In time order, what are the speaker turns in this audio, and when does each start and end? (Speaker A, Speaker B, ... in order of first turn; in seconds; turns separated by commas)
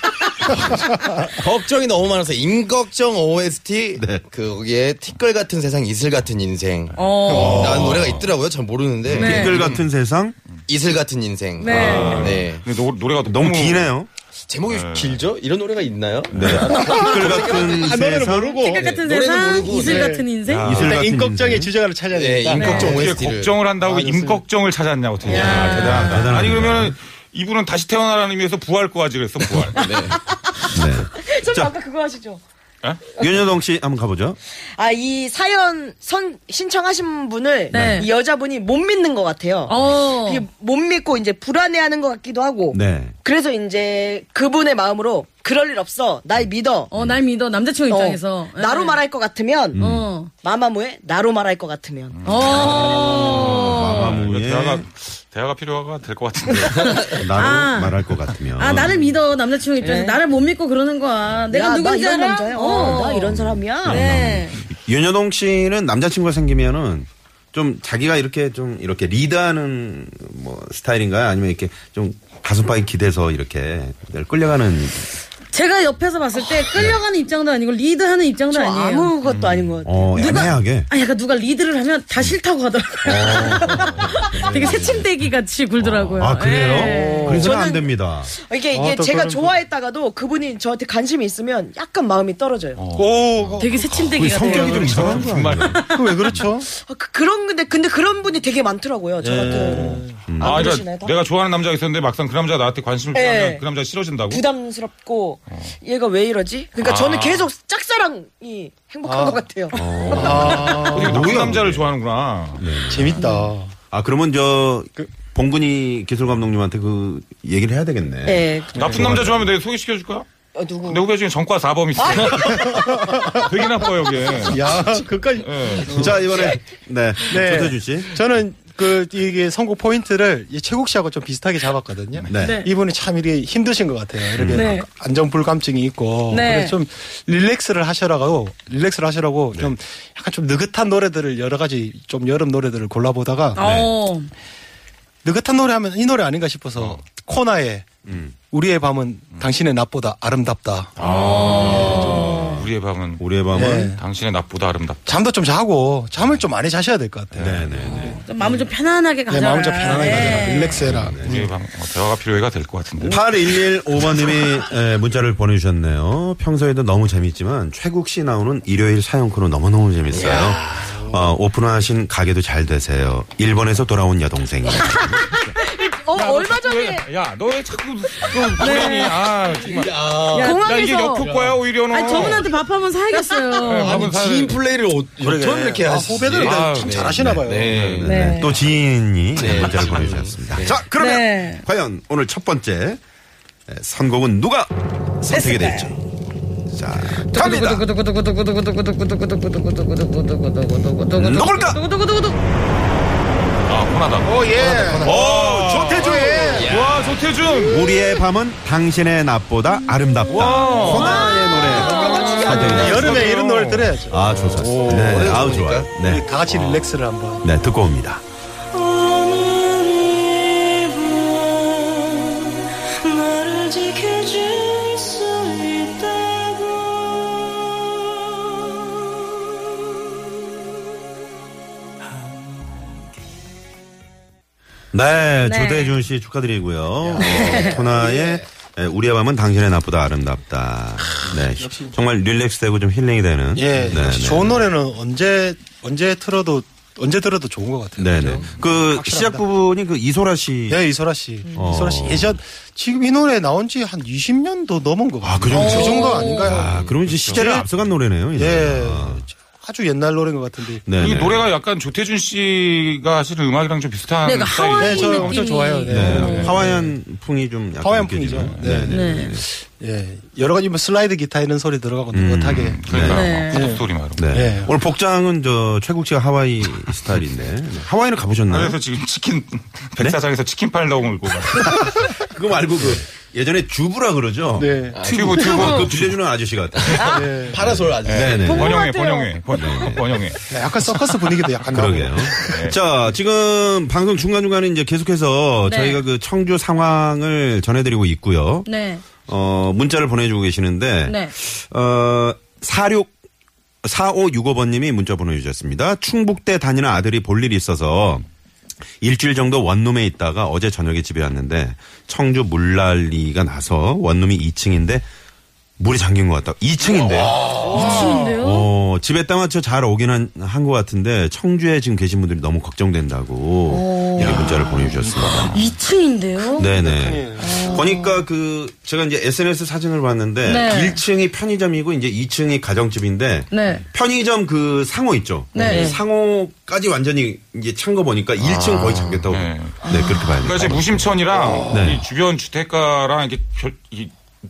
Speaker A: 0.5-9.8, Speaker B: 4.0-4.2, Speaker C: 7.0-8.3, Speaker D: 7.0-7.7, Speaker E: 7.3-8.0, Speaker B: 9.1-10.3, Speaker D: 9.2-9.6, Speaker A: 10.7-12.6, Speaker D: 11.6-12.3, Speaker C: 11.7-13.9, Speaker B: 11.8-12.1, Speaker B: 13.2-14.1, Speaker A: 14.5-18.0, Speaker C: 14.7-15.2, Speaker B: 16.3-18.7, Speaker E: 16.7-19.0, Speaker D: 18.6-20.7, Speaker A: 18.7-20.2, Speaker E: 19.7-23.1, Speaker C: 20.5-21.1, Speaker B: 20.6-21.7, Speaker A: 22.1-23.6, Speaker C: 22.5-30.1, Speaker D: 22.6-22.9, Speaker E: 23.7-24.4, Speaker D: 25.3-26.3, Speaker F: 25.3-25.6, Speaker E: 25.3-25.7, Speaker B: 25.7-27.0, Speaker A: 29.8-30.2, Speaker F: 29.8-32.4, Speaker B: 30.7-31.7, Speaker B: 33.2-34.4, Speaker F: 34.8-46.9, Speaker B: 37.7-38.0, Speaker D: 37.7-38.1, Speaker D: 39.7-40.5, Speaker B: 42.7-43.1, Speaker D: 46.9-49.0, Speaker F: 47.9-49.8, Speaker B: 49.7-50.1, Speaker D: 49.8-50.3, Speaker F: 50.4-53.1, Speaker C: 52.1-57.3, Speaker D: 52.2-54.2, Speaker B: 53.5-54.9, Speaker B: 56.5-59.0, Speaker D: 57.1-58.0, Speaker D: 58.6-63.3, Speaker F: 59.8-60.2, Speaker F: 61.5-64.0, Speaker B: 63.0-75.1, Speaker D: 63.9-64.6, Speaker D: 75.5-79.1, Speaker F: 78.5-80.3, Speaker C: 79.2-79.7, Speaker B: 79.8-80.9, Speaker D: 80.2-87.5, Speaker B: 83.0-85.0, Speaker B: 86.2-88.3, Speaker E: 86.8-87.5, Speaker F: 87.3-92.8, Speaker E: 88.7-89.5, Speaker C: 92.8-96.3, Speaker E: 92.8-95.2, Speaker D: 93.6-95.2, Speaker B: 94.2-95.8, Speaker E: 95.8-96.7, Speaker F: 96.7-101.2, Speaker E: 99.2-100.3, Speaker B: 100.3-100.8, Speaker C: 100.4-104.4, Speaker F: 103.1-103.6, Speaker F: 104.3-110.9, Speaker C: 106.8-107.5, Speaker E: 109.0-109.4, Speaker B: 109.7-111.9, Speaker C: 109.8-112.7, Speaker E: 110.1-111.5, Speaker B: 112.6-113.2, Speaker E: 112.9-113.7, Speaker F: 113.2-113.5, Speaker B: 113.9-119.5, Speaker F: 118.2-119.1, Speaker C: 118.8-120.3, Speaker F: 120.5-121.0, Speaker C: 120.8-124.7, Speaker F: 122.0-122.6, Speaker E: 122.3-123.5, Speaker E: 124.3-126.4, Speaker C: 125.4-126.2, Speaker B: 125.9-128.2, Speaker E: 127.3-143.6, Speaker B: 132.3-132.6, Speaker D: 132.4-132.7, Speaker B: 134.3-134.7, Speaker D: 134.5-134.9, Speaker D: 136.3-136.8, Speaker D: 143.6-144.3, Speaker B: 143.6-143.9, Speaker E: 145.2-147.9, Speaker B: 148.1-148.3, Speaker E: 148.5-150.9, Speaker B: 151.0-153.9, Speaker C: 151.0-155.1, Speaker D: 151.0-152.6, Speaker E: 153.5-154.0, Speaker E: 155.1-158.7, Speaker B: 157.3-158.1, Speaker D: 157.9-160.8, Speaker E: 159.3-161.5, Speaker B: 160.2-161.4, Speaker C: 161.2-163.2, Speaker B: 163.0-175.2, Speaker A: 170.2-171.0, Speaker E: 170.9-171.3, Speaker F: 175.6-177.1, Speaker C: 176.2-182.4, Speaker D: 178.6-179.2, Speaker F: 178.6-178.9, Speaker A: 179.5-180.7, Speaker D: 180.3-181.3, Speaker F: 180.4-181.2, Speaker A: 181.2-181.6, Speaker D: 181.9-184.1, Speaker F: 183.1-183.6, Speaker C: 183.6-184.6, Speaker A: 183.8-188.1, Speaker E: 185.2-187.7, Speaker C: 186.3-188.1, Speaker B: 188.0-193.0, Speaker D: 188.0-188.5, Speaker A: 189.4-190.8, Speaker D: 191.0-191.6, Speaker B: 193.7-195.9, Speaker D: 195.3-195.9, Speaker B: 196.7-197.8, Speaker D: 197.3-202.4, Speaker B: 201.2-201.8, Speaker C: 203.7-204.3, Speaker E: 204.2-206.7, Speaker A: 204.5-205.2, Speaker C: 205.0-207.9, Speaker B: 205.0-206.6, Speaker A: 206.5-207.1, Speaker B: 207.7-213.3, Speaker C: 210.3-215.4, Speaker A: 210.8-213.4, Speaker D: 210.9-212.4, Speaker E: 212.5-214.2, Speaker B: 214.1-216.3, Speaker A: 214.7-215.9, Speaker E: 216.0-217.5, Speaker C: 216.5-216.9, Speaker B: 217.4-218.2, Speaker F: 218.9-220.2, Speaker F: 223.2-224.8, Speaker B: 234.9-244.6, Speaker D: 235.4-235.9, Speaker A: 237.2-238.4, Speaker D: 237.2-237.8, Speaker E: 241.6-241.9, Speaker E: 243.6-249.4, Speaker B: 248.0-250.8, Speaker E: 250.7-257.7, Speaker B: 251.5-252.4, Speaker B: 255.2-259.2, Speaker D: 255.5-256.6, Speaker A: 256.5-256.9, Speaker C: 257.1-257.4, Speaker E: 258.4-261.2, Speaker B: 260.9-261.5, Speaker C: 261.0-265.4, Speaker D: 264.2-266.6, Speaker E: 264.7-267.0, Speaker B: 265.9-269.4, Speaker E: 267.8-274.7, Speaker C: 268.4-268.7, Speaker D: 268.9-269.3, Speaker B: 272.1-273.2, Speaker C: 272.5-274.2, Speaker D: 273.1-273.7, Speaker B: 274.2-278.8, Speaker C: 278.5-282.1, Speaker B: 281.5-288.9, Speaker E: 284.6-285.0, Speaker A: 284.9-285.8, Speaker C: 285.0-286.1, Speaker F: 285.4-285.9, Speaker A: 286.9-288.6, Speaker E: 287.1-287.6, Speaker C: 288.1-291.0, Speaker F: 288.4-289.9, Speaker B: 289.6-290.1, Speaker E: 290.5-292.7, Speaker B: 291.7-298.7, Speaker C: 292.4-292.8, Speaker D: 295.6-296.0, Speaker D: 298.7-299.0, Speaker B: 299.2-303.1, Speaker D: 301.1-301.3, Speaker B: 303.8-308.2, Speaker B: 309.0-315.1, Speaker B: 315.8-325.7, Speaker A: 316.9-317.8, Speaker E: 317.6-318.4, Speaker D: 317.7-318.7, Speaker D: 323.7-324.5, Speaker C: 324.2-325.3, Speaker E: 325.1-325.4, Speaker D: 325.5-326.7, Speaker B: 326.6-341.1, Speaker E: 326.7-327.9, Speaker D: 327.4-328.2, Speaker D: 330.4-331.0, Speaker D: 333.5-333.9, Speaker D: 335.5-336.0, Speaker F: 335.6-336.0, Speaker C: 338.4-344.2, Speaker B: 341.7-342.1